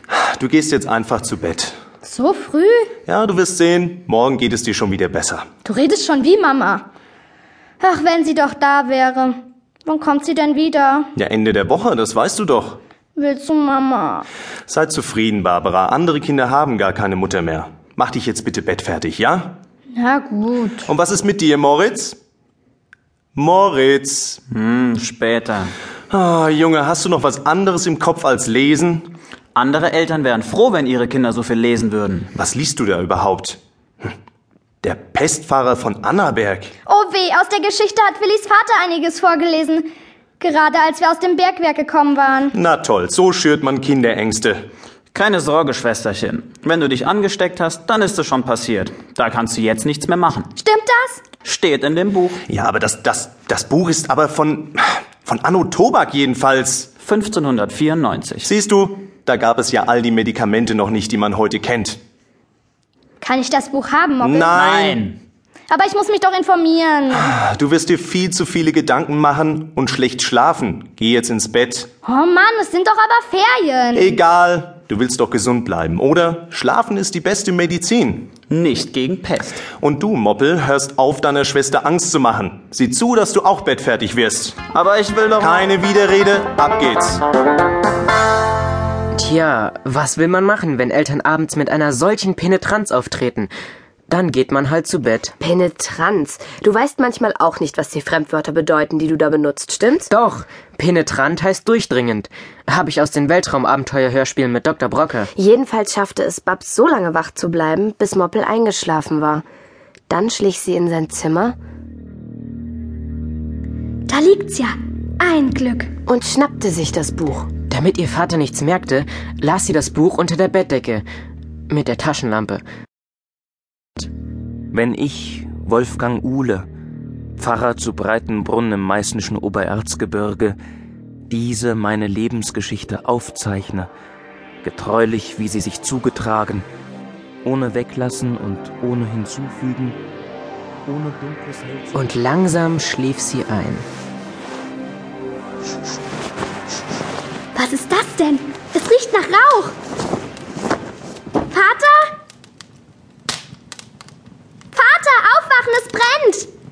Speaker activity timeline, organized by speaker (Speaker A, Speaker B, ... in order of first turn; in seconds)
Speaker A: 0.1-1.8, 3.1-5.5, 11.2-12.8, 14.7-19.6, 20.9-22.2, 23.4-24.4, 26.1-29.1, 32.3-34.1, 34.8-36.7, 42.5-44.6, 52.5-56.9, 58.4-62.0, 64.2-65.0, 67.2-71.9, 73.9-78.3, 79.7-84.7, 85.4-87.2
Speaker B: 2.0-2.9, 5.6-6.8, 7.8-11.1, 13.2-14.2, 19.9-20.9, 36.9-39.9, 40.4-42.5, 50.6-51.2, 63.2-64.6, 65.7-67.3, 72.0-74.2, 114.1-115.9, 147.5-149.7, 151.5-152.1, 154.7-156.5
Speaker C: 24.5-25.7, 29.5-32.3, 45.1-50.5, 51.4-52.4, 57.0-58.5, 64.5-65.2, 78.5-79.6, 84.7-85.7
Speaker D: 89.2-93.5, 94.1-95.3, 100.1-105.3, 117.6-121.0, 121.7-122.6, 141.9-143.8
Speaker E: 95.4-100.1, 105.3-109.4, 110.1-111.5, 116.1-117.6
Speaker F: 124.7-126.7, 127.4-130.6, 131.3-133.9, 134.6-136.7, 137.4-140.0, 140.8-142.1